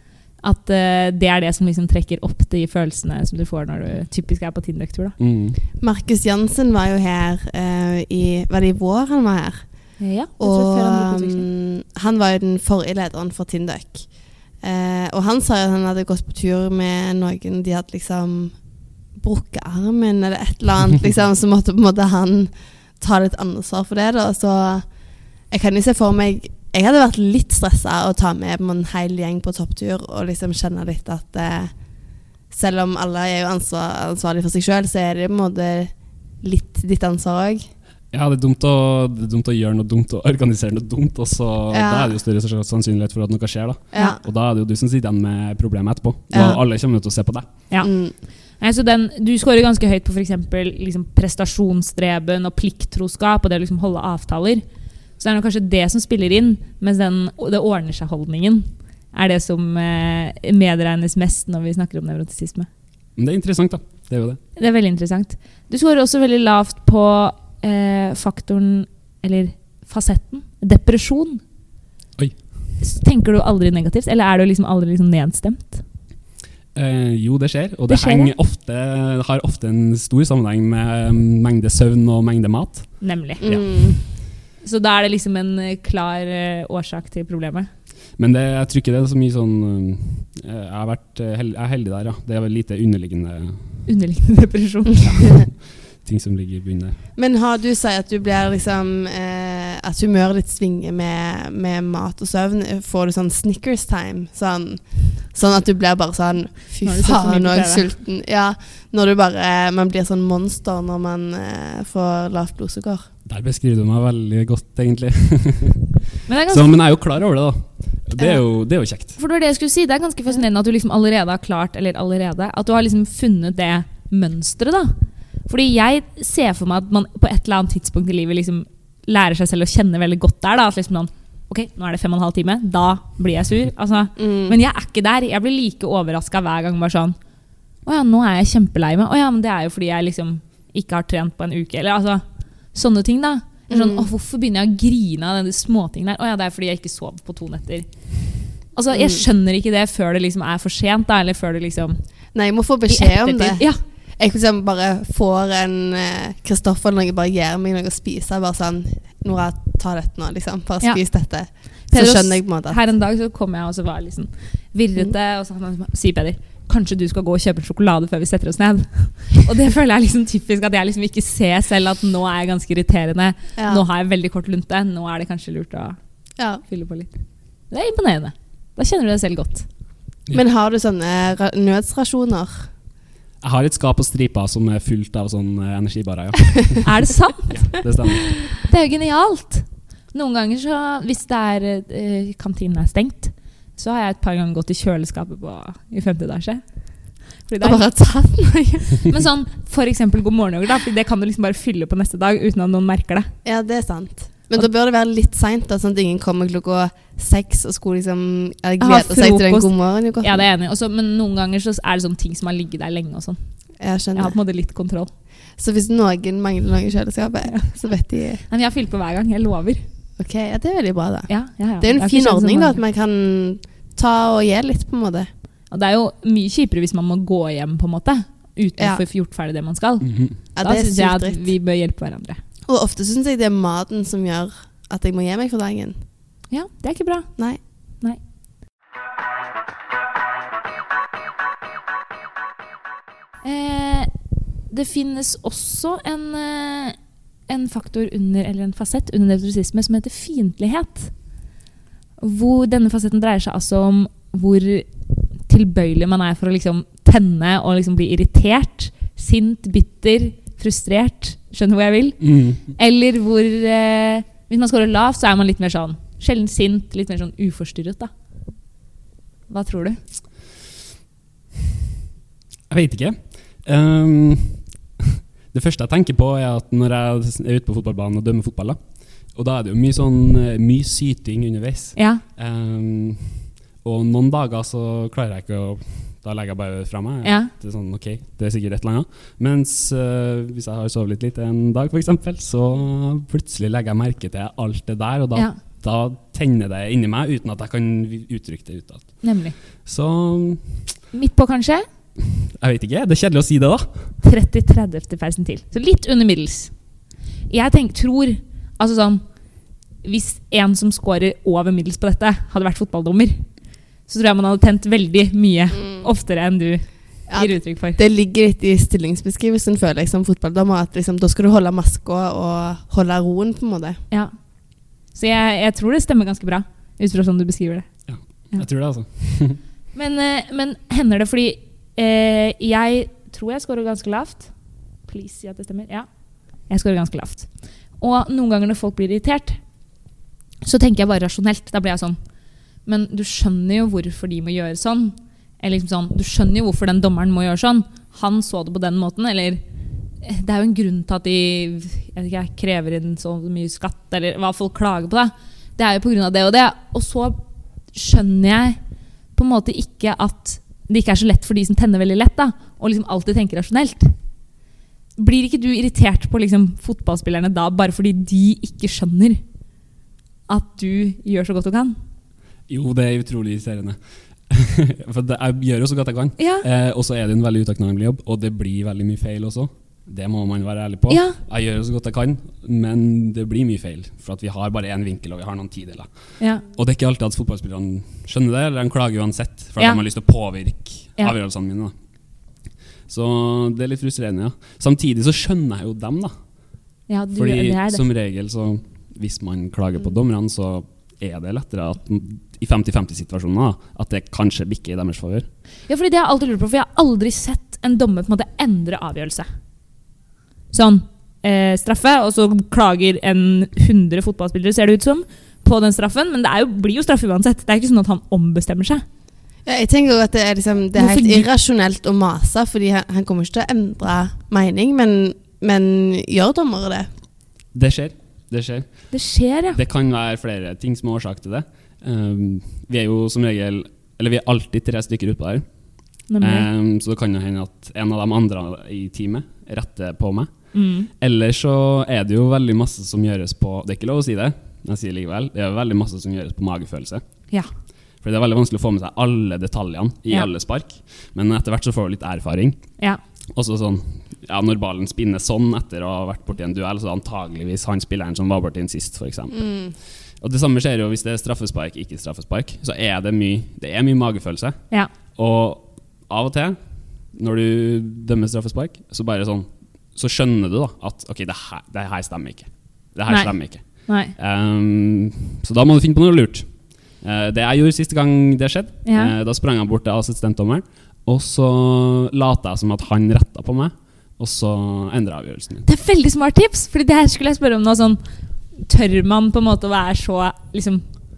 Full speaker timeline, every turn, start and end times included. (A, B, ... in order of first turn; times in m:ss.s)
0:00.4-0:05.2 A
0:05.2-0:05.6 B
0:05.8-0:18.6 C
0:10.0-0:11.5 A
0:19.2-0:24.9 C
0:25.5-0:31.7 C
0:32.5-0:37.7 C
0:38.1-0:47.5 B
0:41.7-0:42.1 C
0:43.9-0:44.2 C
0:46.3-0:46.6 C
0:47.8-0:48.1 C
0:48.6-0:54.6 A
0:55.2-1:02.7 A
1:03.2-1:04.4 B
1:04.6-1:11.4 A
1:12.8-1:15.8 A
1:16.8-1:23.6 B
1:17.9-1:18.3 A
1:23.0-1:23.5 A
1:23.4-1:24.0 C
1:24.6-1:27.7 A
1:28.2-1:33.8 B
1:33.9-1:35.4 A
1:35.0-1:37.0 B
1:37.2-1:53.1 C
1:46.8-1:47.8 A
1:53.3-1:55.9 B
1:56.3-1:56.8 A
1:56.5-1:59.2 B
1:59.2-2:17.2 A
2:14.2-2:14.6 C
2:17.8-2:32.0 A
2:23.7-2:24.1 C
2:28.9-2:29.2 C
2:32.3-2:42.8 C
2:32.9-2:33.8 A
2:41.9-2:56.0 A
2:53.6-2:53.8 C
2:56.4-2:56.6 C
2:56.6-2:57.1 A
2:57.7-2:59.6 A
3:00.3-3:02.7 C
3:03.4-3:06.9 B
3:06.8-3:07.6 A
3:07.5-3:08.4 B
3:08.6-3:17.8 A
3:17.6-3:19.1 C
3:19.0-3:23.3 A
3:23.4-3:30.4 C
3:28.8-3:33.4 A
3:33.8-3:34.4 C
3:34.1-3:35.1 A
3:35.6-3:38.4 C
3:38.5-3:39.8 A
3:40.2-3:45.3 C
3:41.3-3:42.8 A
3:45.7-3:52.4 A
3:50.0-3:50.4 B
3:50.6-3:51.5 C
3:52.7-3:56.0 C
3:56.5-3:58.2 A
4:03.4-4:04.1 A
4:04.7-4:07.0 A
4:07.5-4:11.1 A
4:12.2-4:14.9 A
4:15.4-4:28.1 A
4:22.2-4:22.6 B
4:29.5-4:30.0 A
4:32.7-4:38.8 B
4:39.3-4:59.2 B
4:42.0-4:42.2 A
4:47.2-4:47.5 A
4:59.2-4:59.6 A
4:59.8-5:00.9 B
5:01.1-5:01.8 A
5:02.2-5:04.1 B
5:04.2-5:06.7 A
5:07.5-5:09.2 A
5:10.0-5:13.4 A
5:14.1-5:18.0 A
5:15.8-5:16.1 C
5:17.3-5:24.0 C
5:25.1-5:27.9 A
5:28.1-5:29.6 B
5:30.0-5:34.5 A
5:35.1-5:36.1 A
5:36.7-5:39.6 A
5:40.6-5:42.2 A
5:42.8-5:49.6 A
5:50.2-5:57.4 A
5:57.9-5:58.8 A
5:59.3-6:04.1 A
6:05.2-6:09.4 A
6:10.5-6:12.0 A
6:12.7-6:26.1 B
6:16.4-6:16.6 A
6:21.1-6:21.4 A
6:26.7-6:31.9 B
6:33.1-6:36.3 B
6:37.1-6:38.0 A
6:37.3-6:45.5 B
6:45.9-6:49.5 A
6:50.7-6:59.0 A
6:59.6-7:07.1 C
7:01.0-7:01.5 A
7:07.7-7:09.1 B
7:09.1-7:09.8 A
7:09.7-7:15.6 B
7:16.3-7:16.7 A
7:16.4-7:20.5 B
7:20.7-7:21.1 A
7:21.1-7:27.2 B
7:28.2-7:32.8 B
7:33.5-7:39.7 B
7:39.5-7:39.9 C
7:40.4-7:44.8 B
7:45.4-7:46.8 B
7:47.3-7:56.7 B
7:53.3-7:54.3 A
7:57.2-8:05.9 B
7:59.0-7:59.3 A
8:05.8-8:08.2 A
8:08.8-8:11.0 A